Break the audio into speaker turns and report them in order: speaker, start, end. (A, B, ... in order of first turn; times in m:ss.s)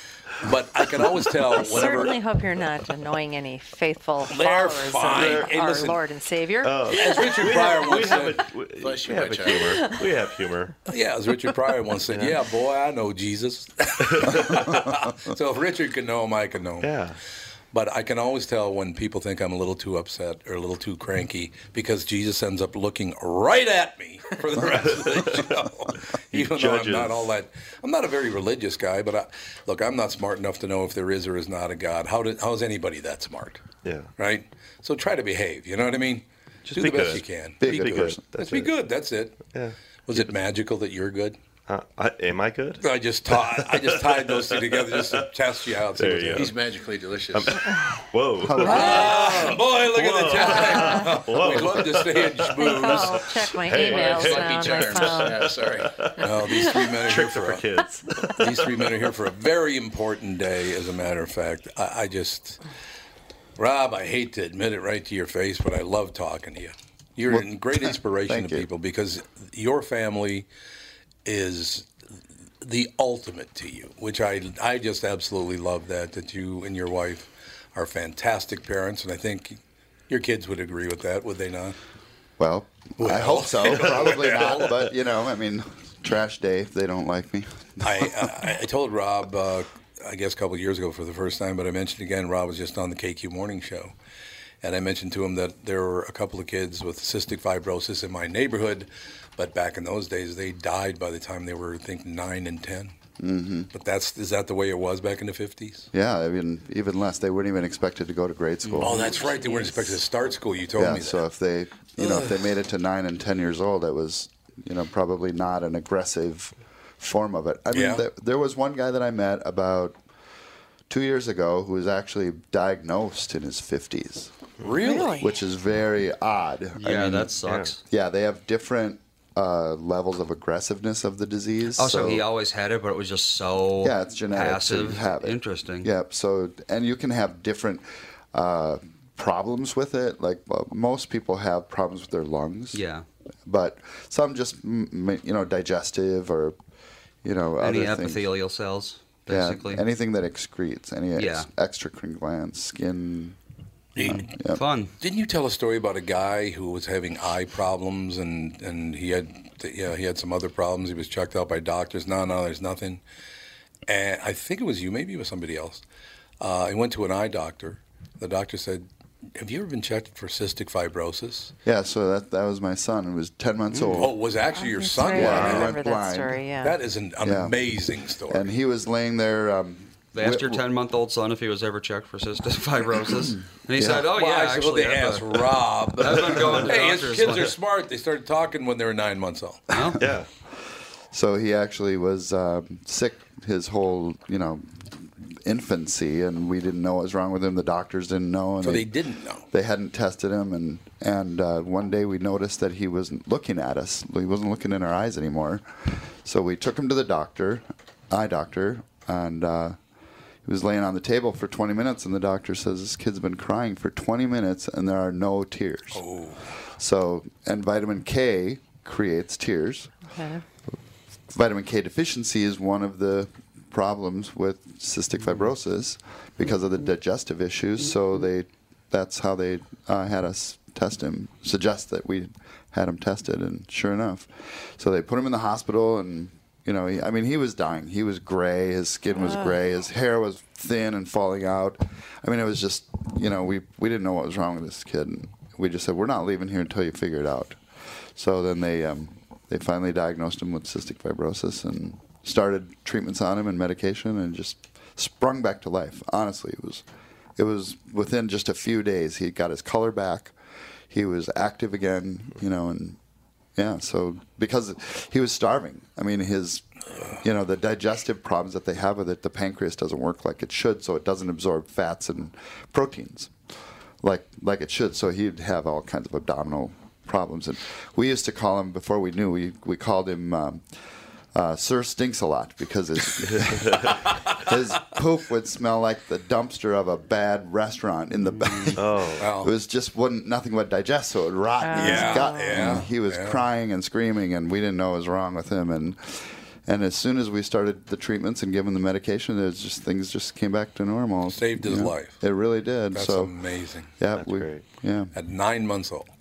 0:00.4-0:02.2 A
0:01.5-0:07.0 B
0:04.3-0:06.0 A
0:05.1-0:05.5 C
0:06.6-0:10.7 C
0:06.9-0:08.4 A
0:08.8-0:09.7 D
0:09.5-0:09.9 B
0:10.9-0:16.9 A
0:12.1-0:12.3 C
0:14.0-0:14.6 C
0:16.8-0:17.2 C
0:17.7-0:33.7 A
0:24.8-0:25.3 C
0:26.3-0:27.2 C
0:33.8-0:34.1 C
0:34.2-0:39.5 A
0:36.6-0:38.7 C
0:37.6-0:38.2 E
0:39.4-0:40.3 C
0:40.1-0:41.4 A
0:41.7-0:42.8 C
0:42.8-0:46.5 A
0:43.3-0:45.3 C
0:46.0-0:46.6 C
0:46.3-0:47.6 D
0:47.3-0:59.0 C
0:48.4-0:49.3 E
0:48.6-0:53.2 A
0:48.6-0:49.1 B
0:50.7-0:51.0 B
0:52.6-0:55.5 B
0:53.7-0:56.1 D
0:56.2-0:57.6 A
0:58.4-1:02.6 A
1:03.6-1:10.5 A
1:07.3-1:08.6 E
1:11.2-1:11.9 A
1:12.6-1:19.6 A
1:20.1-1:21.8 A
1:22.4-1:28.3 E
1:23.0-1:24.8 A
1:27.8-1:33.9 A
1:34.6-1:42.9 A
1:43.2-1:43.7 E
1:43.7-1:45.9 A
1:45.9-1:49.2 E
1:48.8-1:51.2 A
1:50.8-2:00.0 E
1:52.0-1:52.3 A
1:57.7-1:58.0 A
2:00.9-2:04.3 E
2:04.6-2:05.3 A
2:04.8-2:05.3 B
2:05.2-2:07.3 E
2:06.8-2:07.8 F
2:07.4-2:07.8 C
2:07.8-2:12.2 E
2:11.8-2:15.9 F
2:13.8-2:22.8 E
2:22.7-2:23.0 F
2:23.4-2:26.5 E
2:27.2-2:28.2 E
2:27.6-2:29.8 F
2:29.3-2:33.4 E
2:31.2-2:31.5 F
2:34.0-2:34.3 A
2:34.0-2:34.9 F
2:34.0-2:34.6 E
2:35.0-2:43.0 A
2:43.9-2:45.8 A
2:46.4-2:48.8 A
2:49.4-2:51.5 A
2:51.6-2:54.1 E
2:53.9-2:55.7 A
2:54.6-2:56.8 B
2:55.1-2:56.4 E
2:55.2-2:55.5 C
2:56.6-2:58.5 A
2:57.2-2:57.6 E
2:58.3-3:00.6 E
3:00.1-3:05.4 F
3:03.7-3:04.1 E
3:04.1-3:09.7 A
3:06.0-3:07.5 F
3:09.7-3:10.0 F
3:10.0-3:10.3 C
3:11.1-3:18.9 E
3:18.6-3:19.4 A
3:19.5-3:29.8 E
3:30.4-3:36.0 E
3:35.9-3:36.5 A
3:36.8-3:39.9 E
3:40.1-3:40.4 B
3:41.3-4:07.6 E
3:59.2-3:59.6 B
4:08.1-4:16.8 E
4:17.4-4:20.3 E
4:20.9-4:23.0 E
4:23.6-4:26.6 E
4:27.2-4:33.3 E
4:34.0-4:40.6 E
4:41.3-5:03.3 E
4:43.4-4:43.9 C
4:48.3-4:48.7 F
4:48.8-4:49.3 C
4:49.2-4:49.5 A
4:51.6-4:52.8 B
4:51.8-4:53.4 A
5:01.3-5:02.2 A
5:02.9-5:03.9 A
5:04.0-5:05.1 E
5:04.1-5:04.6 C
5:05.1-5:06.1 A